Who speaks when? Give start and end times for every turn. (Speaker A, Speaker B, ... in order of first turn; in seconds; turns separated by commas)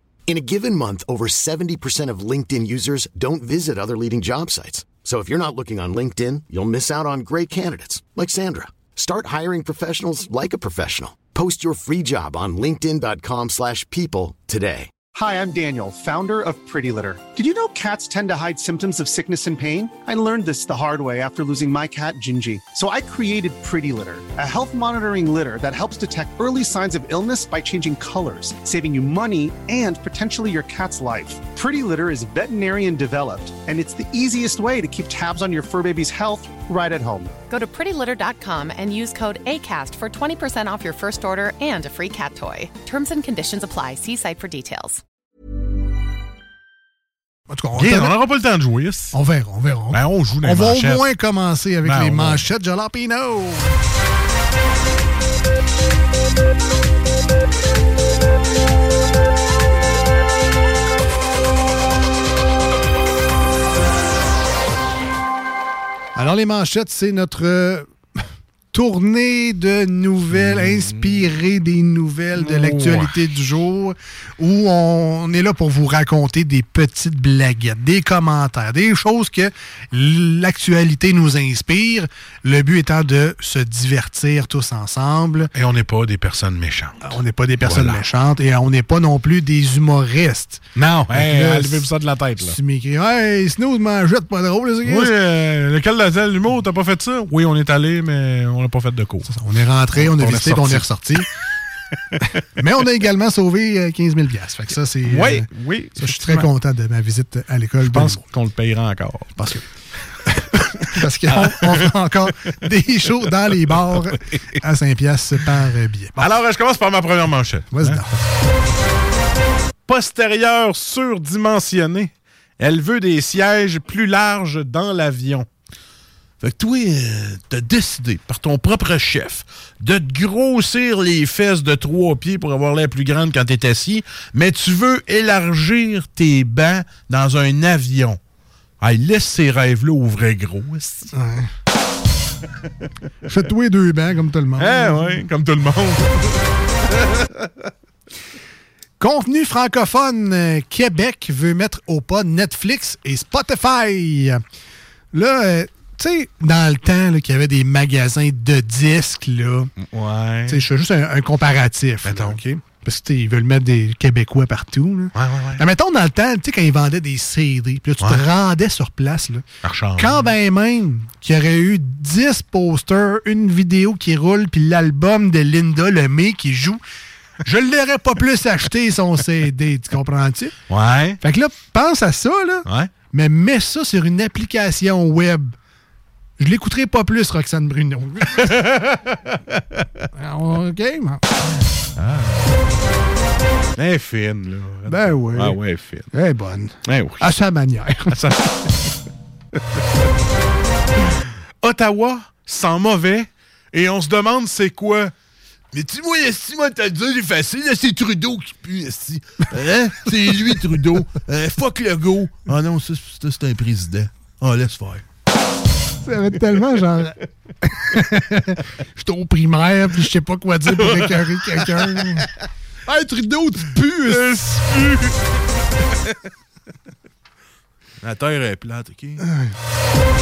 Speaker A: 0.3-14.9, Speaker B: 15.1-37.3, Speaker C: 37.5-45.0, Speaker D: 47.5-48.2, Speaker E: 47.8-49.2, Speaker D: 49.1-53.8, Speaker E: 49.9-51.0, Speaker E: 51.8-52.5, Speaker D: 66.2-67.9, Speaker D: 68.7-85.5, Speaker E: 70.5-71.1, Speaker E: 72.4-73.1, Speaker E: 85.5-88.0, Speaker D: 87.0-95.2, Speaker E: 90.8-92.6, Speaker E: 94.8-99.3, Speaker D: 99.2-101.3, Speaker E: 99.9-101.2, Speaker D: 102.5-108.2, Speaker E: 105.0-106.5, Speaker E: 107.8-109.4, Speaker D: 109.4-109.7, Speaker D: 110.3-116.3, Speaker E: 111.3-111.9, Speaker E: 114.0-114.4, Speaker E: 116.2-118.0, Speaker D: 117.7-118.2, Speaker E: 119.9-125.5, Speaker E: 126.4-138.2, Speaker E: 138.8-141.1, Speaker D: 141.1-141.5, Speaker D: 143.2-145.2, Speaker E: 144.6-147.5, Speaker D: 149.0-154.4, Speaker D: 155.1-159.7, Speaker E: 159.8-160.7, Speaker D: 160.5-169.4, Speaker E: 162.0-162.6, Speaker E: 165.2-165.7, Speaker E: 168.0-168.3, Speaker E: 169.6-170.3, Speaker D: 170.0-176.8, Speaker D: 177.4-180.6, Speaker E: 180.7-181.2, Speaker D: 181.2-185.6, Speaker E: 182.7-182.9, Speaker D: 186.4-188.8, Speaker D: 190.1-191.2, Speaker E: 192.0-192.6, Speaker E: 193.8-196.1, Speaker D: 194.8-195.6, Speaker D: 196.1-198.3, Speaker E: 196.8-197.3, Speaker E: 198.1-198.9, Speaker E: 201.2-205.1, Speaker E: 205.7-215.0, Speaker D: 216.0-222.3, Speaker E: 220.7-222.3, Speaker D: 222.9-224.4, Speaker E: 224.0-225.2, Speaker E: 228.0-229.3